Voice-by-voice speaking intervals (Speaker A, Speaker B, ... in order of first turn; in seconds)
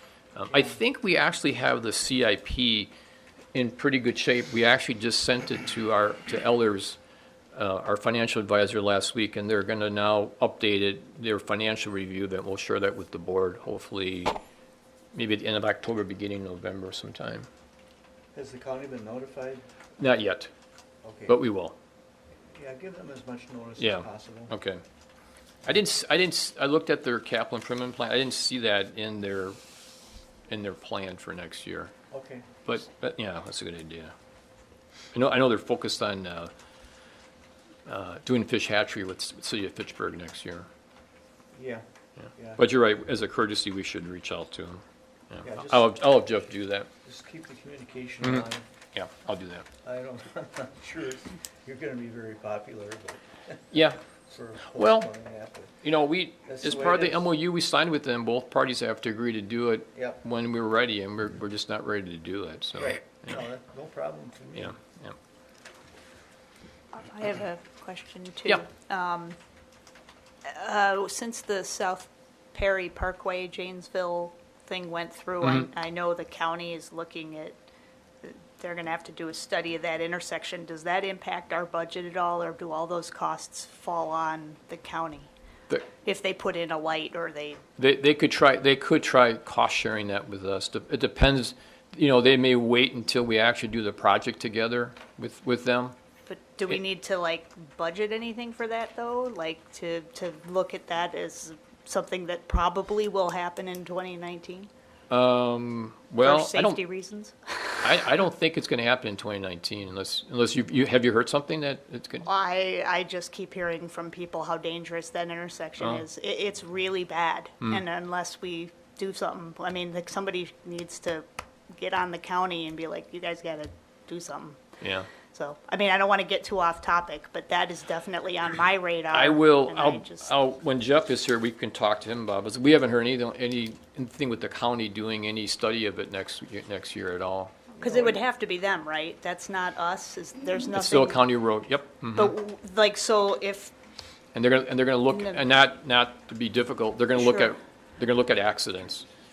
Speaker A: 0.3-2.9, 3.5-7.0, 7.5-14.4, 15.1-17.5, 20.0-20.5, 21.3-21.8, 23.8-24.8, 25.7-29.6, 30.5-31.9, 32.6-34.1, 35.1-36.5, 37.9-40.7, 42.2-46.9, 48.2-49.7, 53.7-54.0, 54.7-55.1, 55.8-63.4, 64.5-65.2, 87.8-95.9, 105.1-106.8, 107.8-112.3, 115.8-116.0, 124.8-125.1, 129.1-137.7, 140.8-142.3, 144.3-149.1
Speaker B: 18.3-19.6, 21.0-21.4, 22.4-24.5, 32.1-32.5, 41.5-41.8, 42.4-42.6, 45.4-45.9, 47.0-48.6, 49.8-53.8, 54.3-55.7, 56.5-57.3, 62.8-64.8
Speaker C: 66.9-69.4, 70.5-77.6, 78.2-85.3, 86.0-87.6, 96.3-104.7, 106.2-107.9, 112.2-124.6, 125.3-130.3, 137.8-141.2, 142.1-143.7, 145.1-145.4, 147.2-147.5